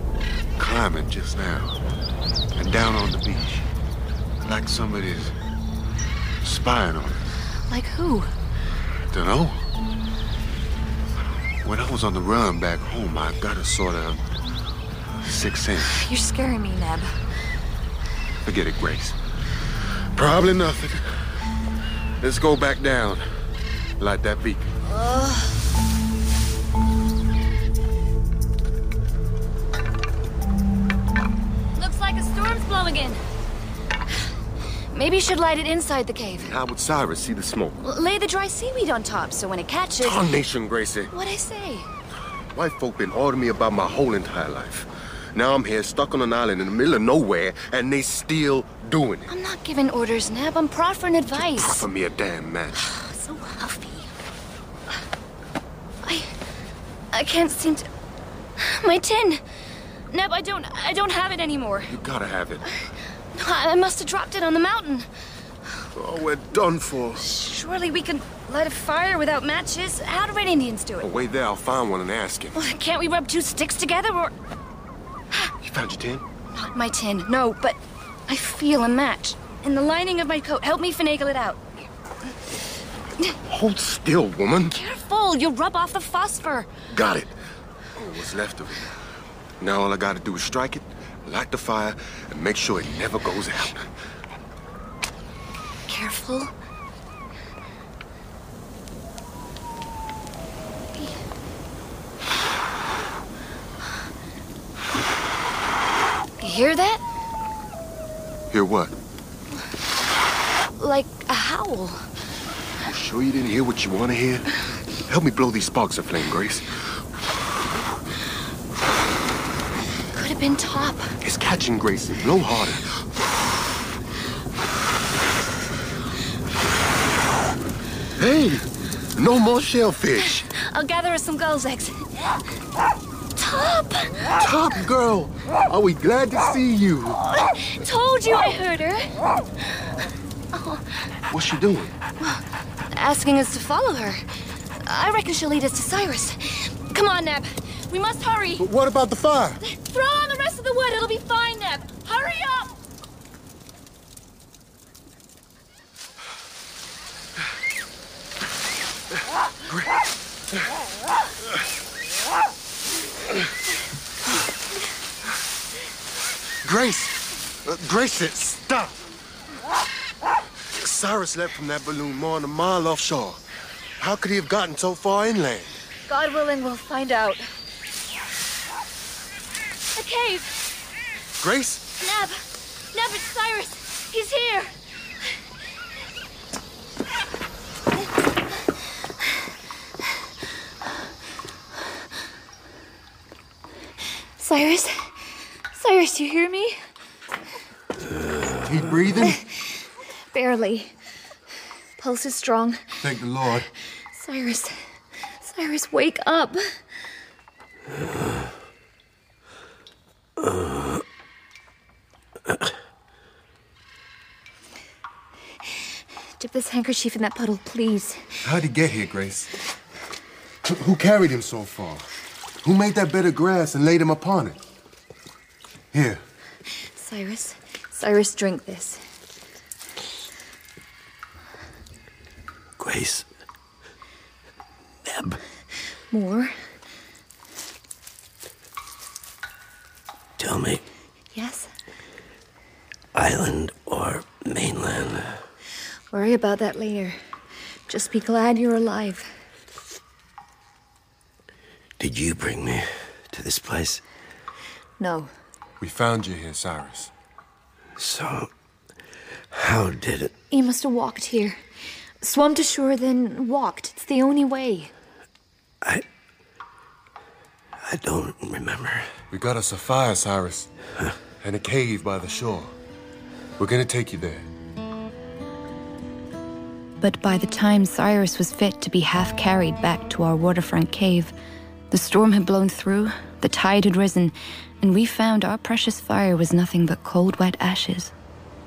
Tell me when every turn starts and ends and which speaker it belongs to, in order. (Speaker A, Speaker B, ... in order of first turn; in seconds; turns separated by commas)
Speaker A: 0.6-1.8, Speaker A: 2.6-3.7, Speaker A: 4.4-5.3, Speaker A: 6.4-7.2, Speaker B: 7.7-8.3, Speaker A: 9.1-9.6, Speaker A: 11.6-14.2, Speaker A: 15.2-15.9, Speaker B: 15.8-17.1, Speaker A: 18.4-19.2, Speaker A: 20.2-21.1, Speaker A: 22.2-23.3, Speaker A: 24.0-24.6, Speaker B: 24.9-25.6, Speaker B: 31.8-33.2, Speaker B: 34.9-36.5, Speaker A: 36.4-37.8, Speaker B: 37.8-40.2, Speaker A: 40.0-41.1, Speaker B: 41.1-41.9, Speaker A: 42.5-49.3, Speaker B: 49.3-51.8, Speaker A: 51.5-52.9, Speaker B: 52.8-54.1, Speaker B: 57.1-57.9, Speaker B: 58.6-59.4, Speaker B: 60.1-61.9, Speaker A: 61.9-62.7, Speaker B: 63.4-65.1, Speaker A: 66.0-67.2, Speaker B: 67.2-71.1, Speaker A: 71.0-72.6, Speaker B: 72.6-74.3, Speaker A: 75.6-76.2, Speaker B: 76.5-77.8, Speaker B: 78.3-81.6, Speaker A: 83.5-84.8, Speaker B: 84.7-86.7, Speaker A: 86.9-87.3, Speaker A: 88.0-88.9, Speaker A: 89.6-93.9, Speaker B: 95.9-96.5, Speaker B: 106.4-107.0, Speaker A: 108.5-108.9, Speaker B: 110.8-112.1, Speaker A: 112.8-114.5, Speaker A: 115.1-116.7, Speaker B: 120.1-121.1, Speaker A: 121.2-123.0, Speaker A: 128.2-128.7, Speaker A: 129.2-130.5, Speaker B: 130.4-132.1, Speaker B: 133.4-134.3, Speaker A: 134.4-137.2, Speaker B: 137.3-139.1, Speaker B: 140.5-140.8, Speaker A: 141.3-141.9, Speaker B: 142.9-144.2, Speaker B: 144.8-148.6, Speaker A: 148.6-149.6, Speaker B: 149.6-152.7, Speaker A: 166.6-168.9, Speaker A: 170.8-173.4, Speaker A: 174.0-175.8, Speaker B: 176.1-177.4, Speaker B: 180.0-180.5, Speaker A: 181.4-181.9, Speaker B: 182.0-182.4, Speaker B: 182.9-184.7, Speaker B: 194.4-195.1, Speaker B: 195.7-196.8, Speaker A: 198.6-199.4, Speaker B: 200.3-200.9, Speaker B: 202.0-202.8, Speaker A: 203.0-203.7, Speaker B: 204.2-204.8, Speaker B: 205.4-206.6, Speaker C: 210.4-211.0, Speaker B: 216.4-218.2, Speaker A: 218.4-219.5, Speaker A: 220.7-222.1, Speaker A: 222.6-224.6, Speaker A: 225.9-226.2, Speaker B: 226.9-229.0, Speaker C: 232.8-233.3, Speaker C: 235.1-235.4, Speaker B: 236.1-236.5, Speaker C: 240.4-240.8, Speaker B: 241.3-241.7, Speaker C: 243.1-245.4, Speaker B: 246.1-247.2, Speaker B: 247.9-249.3, Speaker C: 252.0-254.0, Speaker B: 255.0-255.3, Speaker A: 255.8-257.1, Speaker C: 258.0-258.5, Speaker C: 259.5-260.3, Speaker B: 260.5-261.6, Speaker B: 262.2-264.9, Speaker C: 267.8-269.1, Speaker A: 269.3-270.7, Speaker A: 271.4-272.7, Speaker A: 273.6-274.5, Speaker D: 277.0-281.3, Speaker D: 281.9-288.1